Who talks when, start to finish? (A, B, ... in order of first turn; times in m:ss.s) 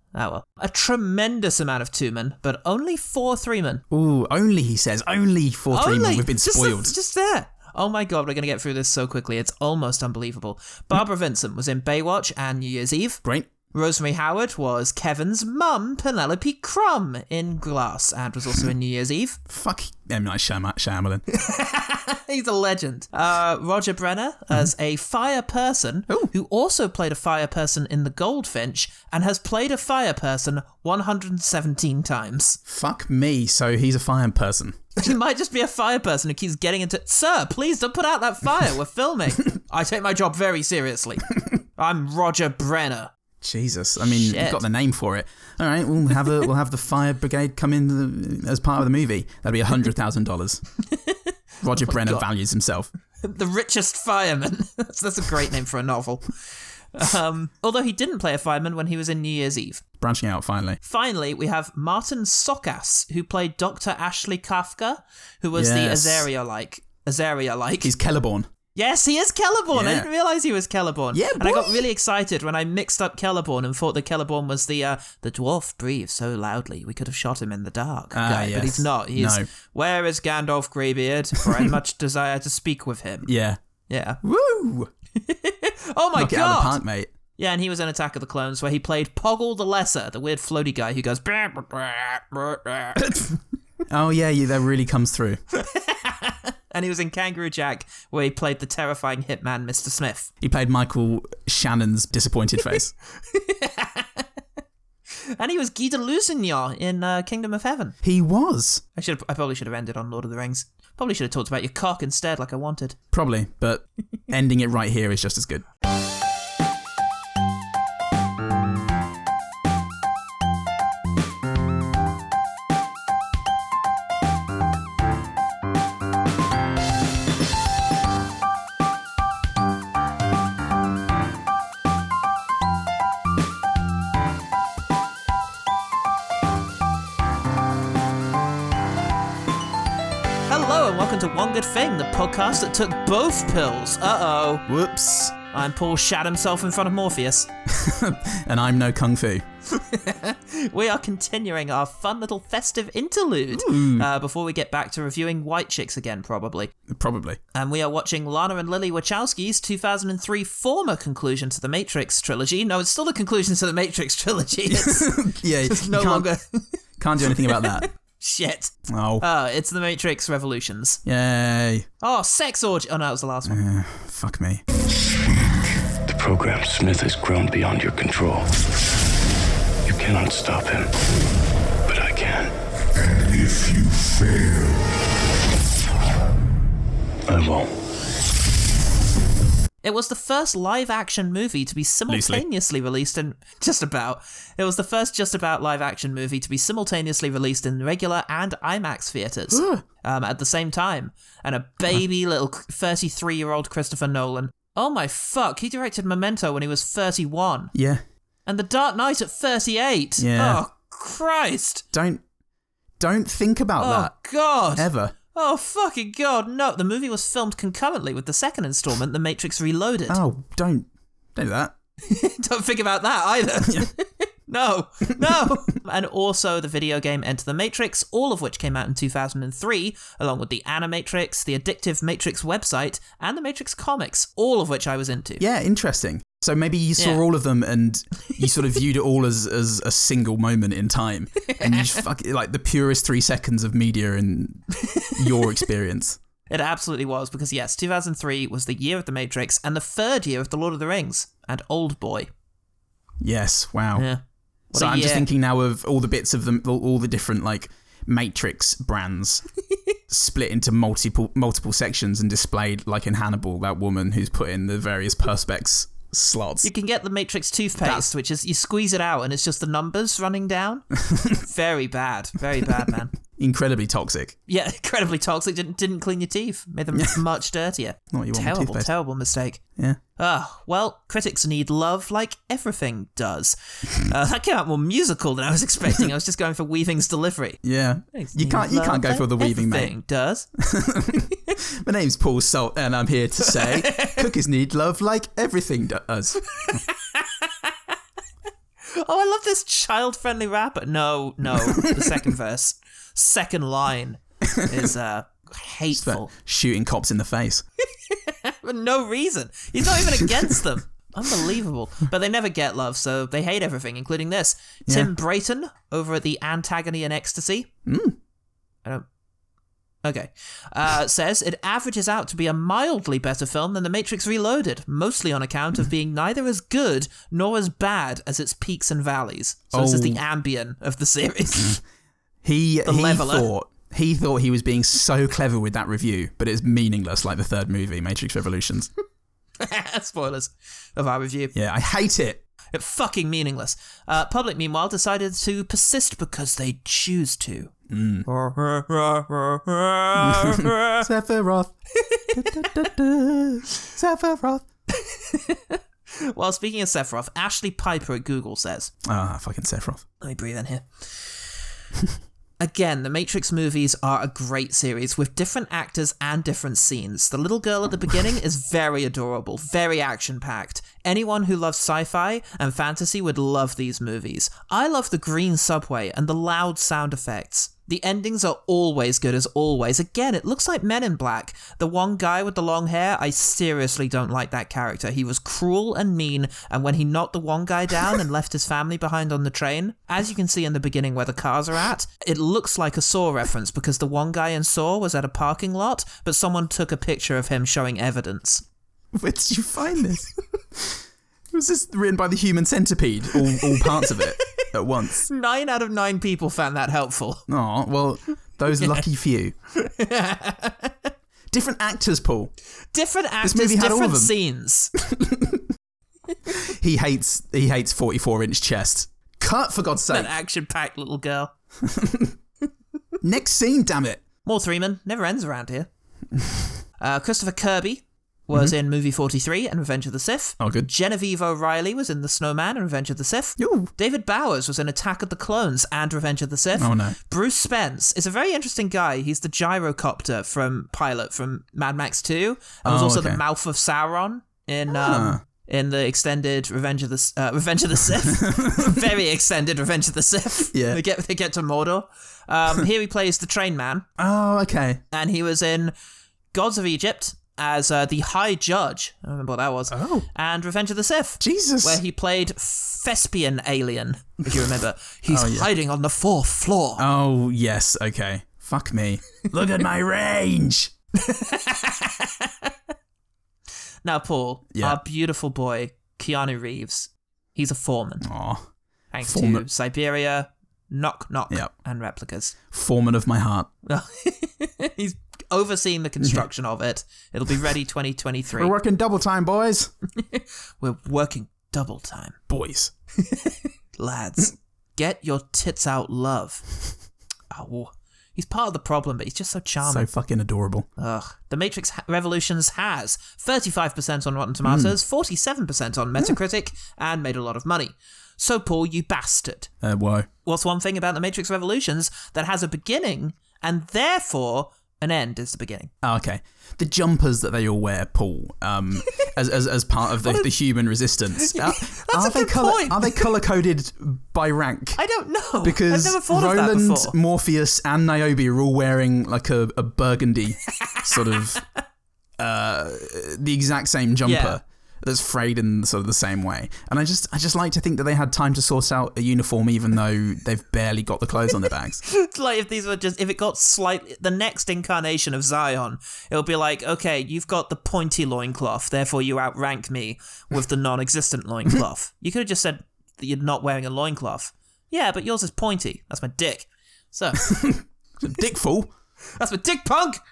0:00.1-0:03.8 A
0:03.9-0:07.0 B
0:05.7-0:13.2 A
0:13.2-0:13.5 B
0:13.7-0:19.4 A
0:19.5-0:21.2 B
0:21.3-0:32.6 A
0:32.7-0:35.1 B
0:35.0-0:43.1 A
0:43.4-0:50.6 B
0:44.0-0:44.6 A
0:51.6-0:52.9 B
0:51.8-0:52.2 A
0:53.2-0:56.3 A
0:56.9-0:59.8 A
1:00.0-1:00.8 B
1:00.8-1:07.9 A
1:05.6-1:06.3 B
1:07.8-1:08.5 B
1:08.8-1:23.3 A
1:09.7-1:10.1 B
1:11.1-1:11.8 B
1:18.1-1:19.5 B
1:21.4-1:21.7 B
1:23.2-1:23.6 B
1:23.9-1:24.2 A
1:24.2-1:24.9 B
1:25.2-1:26.8 A
1:26.2-1:27.1 B
1:27.4-1:33.0 A
1:33.0-1:33.3 B
1:33.9-1:35.4 B
1:35.5-1:40.3 A
1:40.4-1:42.9 B
1:43.3-1:44.3 A
1:45.4-1:47.9 A
1:48.0-1:48.8 B
1:49.0-1:53.0 A
1:53.1-1:55.6 B
2:20.5-2:24.6 A
2:24.7-2:25.3 B
2:25.5-2:27.5 A
2:27.7-2:29.4 B
2:29.7-2:36.7 A
2:33.5-2:34.1 B
2:36.9-2:37.4 B
2:37.5-2:51.0 A
2:44.7-2:46.3 B
2:47.0-2:47.9 B
2:48.9-2:49.2 B
2:51.0-2:51.9 B
2:52.0-2:53.6 A
2:53.5-2:54.6 B
2:56.0-2:58.5 C
2:59.8-3:01.0 C
3:01.9-3:02.5 C
3:03.3-3:04.4 C
3:07.3-3:07.7 C
3:09.8-3:27.7 A
3:12.1-3:12.4 B
3:19.5-3:19.8 B
3:27.7-3:28.0 B
3:28.5-3:31.8 A
3:30.2-3:30.6 B
3:31.9-3:32.2 B
3:33.0-3:34.1 B
3:33.8-3:40.2 A
3:34.8-3:35.1 B
3:40.1-3:41.7 B
3:42.1-3:55.4 A
3:45.3-3:45.5 B
3:55.4-4:06.2 B
4:01.5-4:02.0 A
4:04.8-4:05.6 A
4:06.5-4:12.3 A
4:13.2-4:14.1 B
4:14.0-4:14.2 A
4:14.7-4:19.4 B
4:14.7-4:15.3 A
4:20.1-4:26.7 B
4:26.6-4:33.1 A
4:27.8-4:28.1 B
4:31.1-4:31.4 B
4:33.3-4:34.4 B
4:34.5-4:39.6 A
4:36.9-4:37.2 B
4:38.1-4:38.9 B
4:40.2-4:47.6 A
4:47.6-4:49.9 B
4:48.1-4:50.5 A
4:50.6-4:56.8 B
4:53.5-4:54.2 A
4:56.5-4:57.7 A
4:58.9-5:06.3 A
5:01.6-5:02.2 B
5:04.5-5:04.9 B
5:05.9-5:07.6 B
5:08.0-5:17.7 A
5:14.9-5:15.1 B
5:17.9-5:18.2 B
5:20.0-5:31.8 A
5:29.7-5:30.2 B
5:32.4-5:38.9 B
5:32.9-5:33.5 A
5:39.6-5:41.5 A
5:41.5-5:42.4 B
5:42.7-5:47.7 A
5:47.9-5:48.3 B
5:48.3-5:51.1 A
5:50.2-5:51.7 B
5:52.0-5:52.8 A
5:52.3-5:54.6 B
5:54.9-5:58.9 A
5:59.0-6:00.0 B
6:00.2-6:01.4 A
6:02.6-6:38.6 A
6:39.1-6:41.0 B
6:41.5-6:45.3 B
6:43.6-6:44.3 A
6:45.3-6:47.4 A
6:47.5-6:49.5 B
6:49.8-6:51.1 A
6:51.5-6:52.5 B
6:52.9-6:54.9 A
6:53.4-6:54.3 B
6:55.0-6:55.6 B
6:56.5-7:00.3 B
7:00.1-7:01.5 A
7:01.8-7:02.4 B
7:03.2-7:04.2 B
7:04.5-7:05.9 A
7:07.0-7:34.1 A
7:10.6-7:10.9 B
7:13.6-7:13.9 B
7:16.8-7:17.2 B
7:22.8-7:23.4 B
7:24.9-7:25.4 B
7:28.2-7:29.0 B
7:30.7-7:31.0 B
7:34.2-7:35.0 B
7:35.1-7:35.9 A
7:36.5-7:47.0 A
7:39.9-7:40.3 B
7:41.4-7:42.0 B
7:45.3-7:45.7 B
7:47.0-7:50.9 B
7:51.2-7:52.7 A
7:54.0-7:58.3 A
7:58.2-7:58.6 B
7:59.1-8:02.6 A
7:59.2-7:59.6 B
8:02.7-8:03.7 B
8:03.9-8:08.7 A
8:06.2-8:06.5 B
8:08.6-8:09.9 B
8:10.2-8:12.4 A
8:12.5-8:12.9 B
8:13.2-8:16.7 A
8:17.5-8:20.1 A
8:19.8-8:20.9 B
8:21.0-8:29.7 A
8:24.6-8:25.0 B
8:29.8-8:30.3 B
8:30.4-8:35.9 A
8:36.0-8:45.0 B
8:41.4-8:43.3 A
8:45.0-8:47.1 A
8:45.6-8:51.6 B
8:50.8-8:51.4 A
8:52.4-9:02.0 B
8:54.2-8:54.6 A
9:02.0-9:17.5 A
9:17.5-9:18.9 B
9:19.4-9:20.2 A